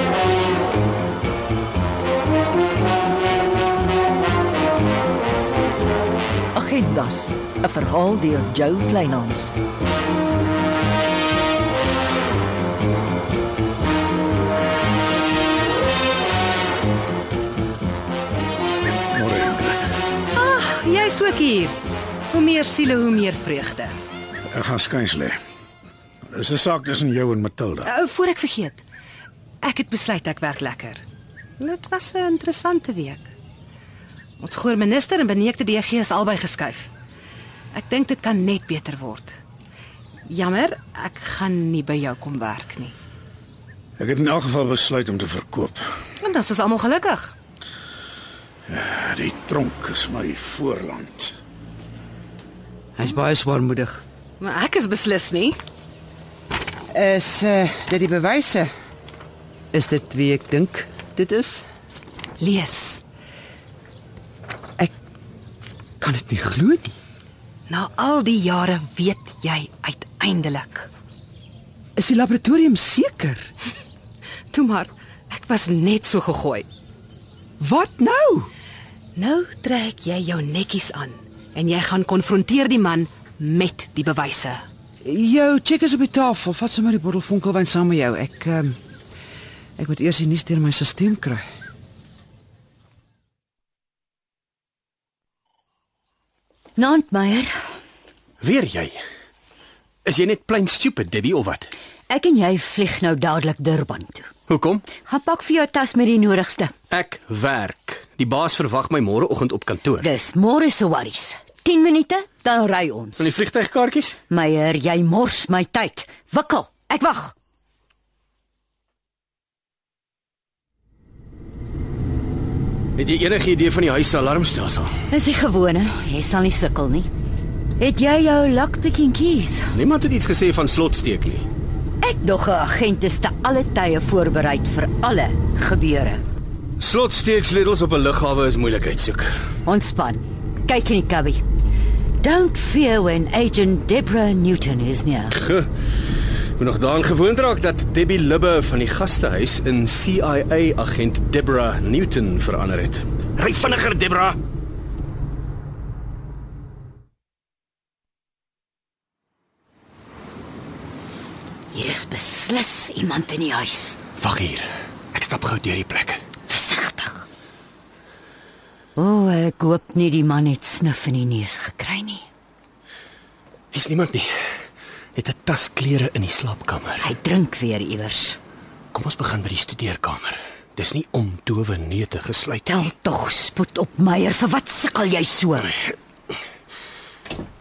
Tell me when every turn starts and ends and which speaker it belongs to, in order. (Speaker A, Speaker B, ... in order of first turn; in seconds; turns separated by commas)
Speaker A: 6.5-9.5, Speaker B: 19.1-20.0, Speaker C: 20.4-21.8, Speaker C: 22.3-23.9, Speaker B: 24.5-25.4, Speaker B: 26.3-27.9, Speaker C: 27.9-28.8, Speaker C: 29.6-31.0, Speaker C: 31.6-33.3, Speaker C: 34.4-36.9, Speaker C: 37.7-39.4, Speaker C: 40.3-42.9, Speaker B: 44.0-45.8, Speaker C: 46.2-47.3, Speaker B: 48.7-51.4, Speaker D: 53.0-54.0, Speaker C: 54.4-55.5, Speaker D: 56.9-58.7, Speaker D: 59.7-61.6, Speaker C: 62.4-63.0, Speaker D: 66.0-67.0, Speaker C: 67.7-70.9, Speaker D: 72.0-73.5, Speaker C: 74.5-76.7, Speaker D: 77.6-78.5, Speaker C: 79.2-84.6, Speaker D: 85.0-88.8, Speaker D: 89.8-91.5, Speaker E: 96.8-97.6, Speaker F: 98.4-99.0, Speaker F: 100.0-101.7, Speaker E: 102.1-104.3, Speaker F: 104.5-104.9, Speaker E: 105.0-106.7, Speaker F: 106.9-110.1, Speaker E: 110.0-113.3, Speaker F: 113.2-114.2, Speaker E: 114.3-117.3, Speaker F: 123.0-124.9, Speaker E: 125.1-127.1, Speaker E: 127.8-129.8, Speaker F: 129.7-131.5, Speaker E: 132.0-136.2, Speaker F: 136.8-139.3, Speaker E: 139.7-141.4, Speaker E: 142.2-145.4, Speaker F: 145.4-145.7, Speaker F: 146.6-154.4, Speaker E: 161.7-164.0, Speaker F: 164.2-166.2, Speaker E: 166.5-167.3, Speaker E: 169.0-172.2, Speaker F: 173.7-174.3, Speaker F: 175.2-177.1, Speaker E: 177.0-178.4, Speaker F: 178.9-182.9, Speaker E: 182.7-185.7